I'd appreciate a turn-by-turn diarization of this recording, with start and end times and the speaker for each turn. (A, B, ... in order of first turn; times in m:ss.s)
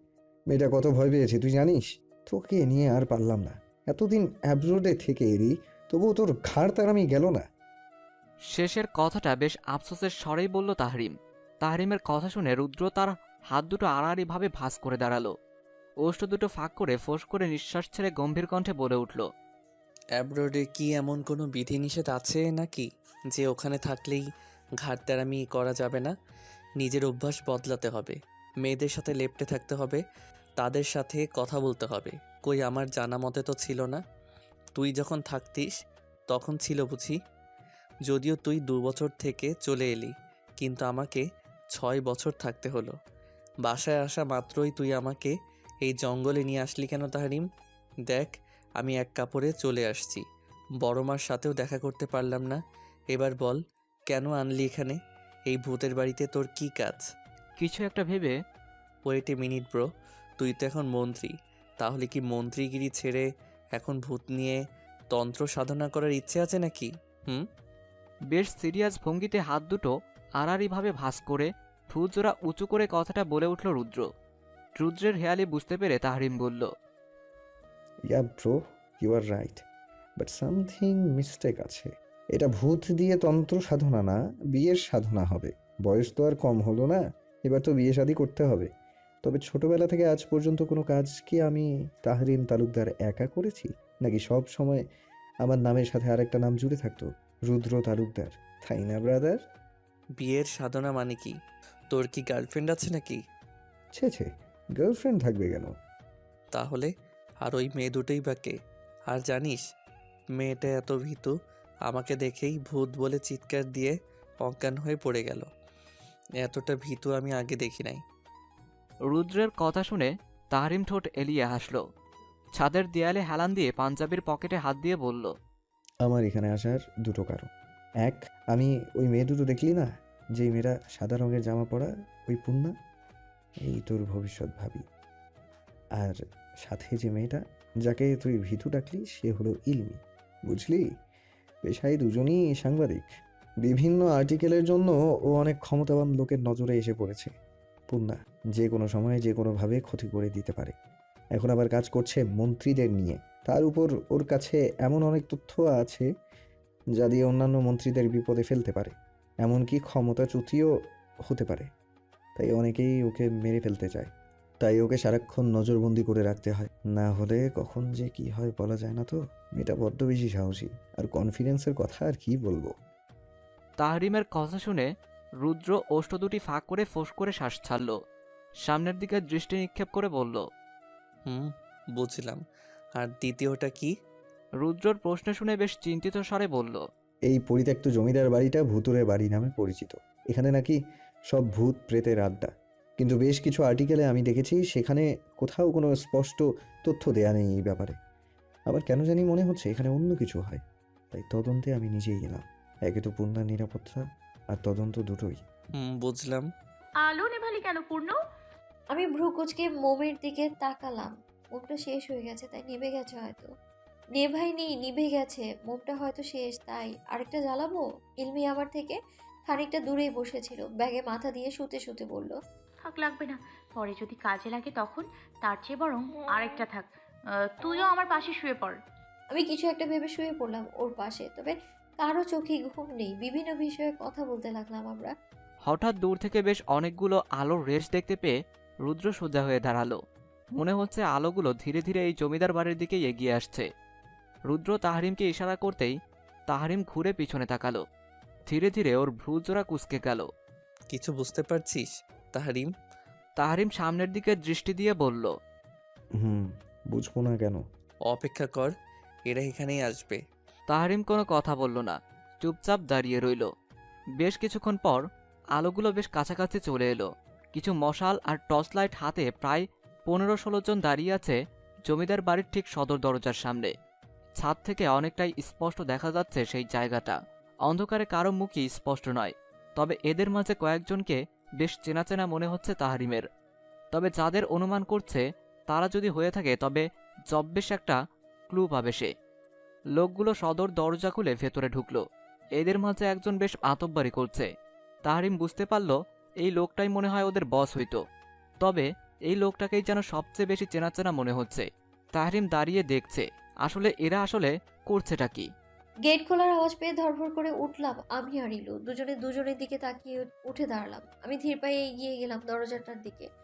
0:00.5-0:07.4 A
0:08.4-0:15.3 B
0:16.0-0:19.2 B
0:20.2-0:24.2 C
0:24.8-0:26.1 C
0:26.8-0:30.0 C
0:30.6-0:34.0 C
0:34.8-0:35.8 C
0:36.3-0:37.1 C
0:38.1-0:41.2 C
0:41.7-0:42.9 C
0:43.6-0:45.3 C
0:45.8-0:47.4 C
0:48.1-0:50.2 C
0:50.8-0:52.6 C
0:53.1-0:53.6 C
0:54.1-0:55.0 C
0:55.5-0:57.0 C
0:57.6-0:58.3 B
0:59.1-0:59.8 C
1:00.4-1:04.6 C
1:05.1-1:07.4 C
1:08.3-1:14.0 B
1:14.7-1:16.7 B
1:18.1-1:19.6 A
1:20.2-1:28.7 A
1:29.2-1:34.8 A
1:35.4-1:39.4 A
1:40.2-1:41.3 C
1:41.9-1:43.2 C
1:43.9-1:45.7 A
1:46.5-1:46.9 C
1:47.4-1:48.5 C
1:49.1-1:49.6 C
1:50.4-1:51.3 C
1:51.9-1:55.5 C
1:56.4-1:58.0 C
1:59.1-2:01.8 B
2:02.5-2:05.3 B
2:06.0-2:07.5 A
2:08.0-2:12.7 A
2:13.6-2:14.8 A
2:16.0-2:20.8 A
2:21.6-2:23.0 A
2:23.6-2:27.3 A
2:27.9-2:30.7 A
2:31.3-2:36.0 A
2:37.0-2:40.7 A
2:41.3-2:41.7 A
2:42.4-2:52.7 A
2:53.8-2:54.9 B
2:55.4-2:58.0 B
2:58.6-3:00.4 B
3:01.3-3:02.4 C
3:03.0-3:03.9 C
3:04.6-3:06.8 B
3:07.3-3:10.8 A
3:11.3-3:17.9 A
3:18.7-3:20.6 A
3:21.1-3:24.0 A
3:24.5-3:25.4 A
3:25.8-3:26.4 C
3:27.0-3:28.1 D
3:28.9-3:33.5 E
3:34.2-3:42.3 E
3:42.8-3:46.9 D
3:47.6-3:48.8 D
3:49.3-3:55.1 E
3:55.6-4:00.0 B
4:00.6-4:03.7 B
4:04.5-4:05.9 B
4:06.5-4:07.8 B
4:08.5-4:10.3 B
4:10.9-4:12.7 C
4:13.4-4:15.3 B
4:16.2-4:17.6 A
4:18.1-4:18.7 C
4:19.3-4:20.2 C
4:20.7-4:23.5 B
4:24.2-4:25.0 B
4:25.5-4:33.7 B
4:34.4-4:43.2 B
4:43.9-4:48.0 B
4:48.5-4:49.1 B
4:49.9-4:52.0 B
4:52.6-4:54.5 B
4:55.0-4:58.0 B
4:58.6-5:05.5 B
5:06.1-5:13.2 E